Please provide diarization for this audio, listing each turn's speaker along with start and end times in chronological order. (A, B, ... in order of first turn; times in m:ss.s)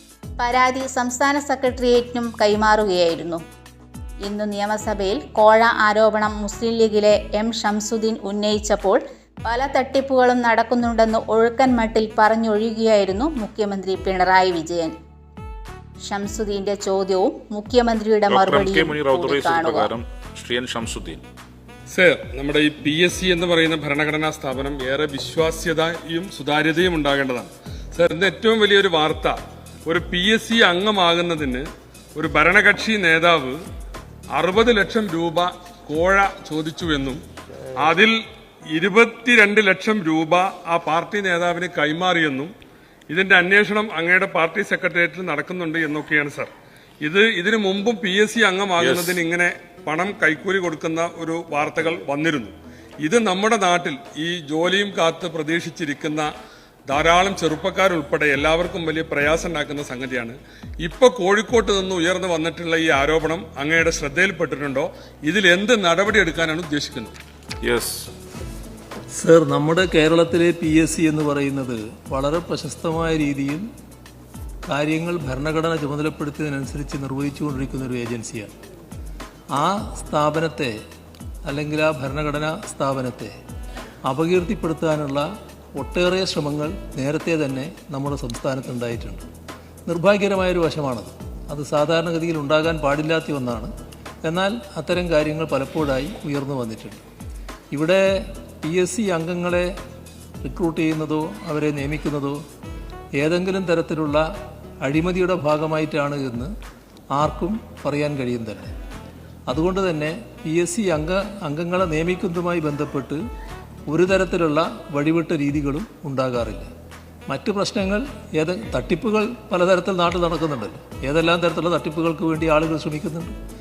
0:00.4-0:03.4 A
0:04.2-0:14.9 A
0:16.0-0:19.9 A
0:18.3-0:21.2 B
0:21.9-0:29.4 C
0:29.9-0:33.6 C
0:34.3-0:37.2 C
0:37.8-0:38.2 C
0:38.7-0:42.5 C
0:43.1-0:46.5 C
0:47.0-0:56.3 C
0:48.8-0:49.2 B
0:56.9-1:07.1 C
1:07.6-1:08.1 B
1:09.1-1:13.6 D
1:14.6-1:18.5 D
1:19.5-1:20.8 D
1:21.4-1:23.3 D
1:24.1-1:25.2 D
1:25.8-1:29.2 D
1:29.9-1:33.7 D
1:34.2-1:37.0 D
1:37.7-1:39.7 D
1:40.4-1:42.4 D
1:43.2-1:44.2 D
1:44.8-1:46.5 D
1:47.1-1:48.7 D
1:49.5-1:53.2 D
1:53.9-1:56.7 D
1:57.3-2:03.4 D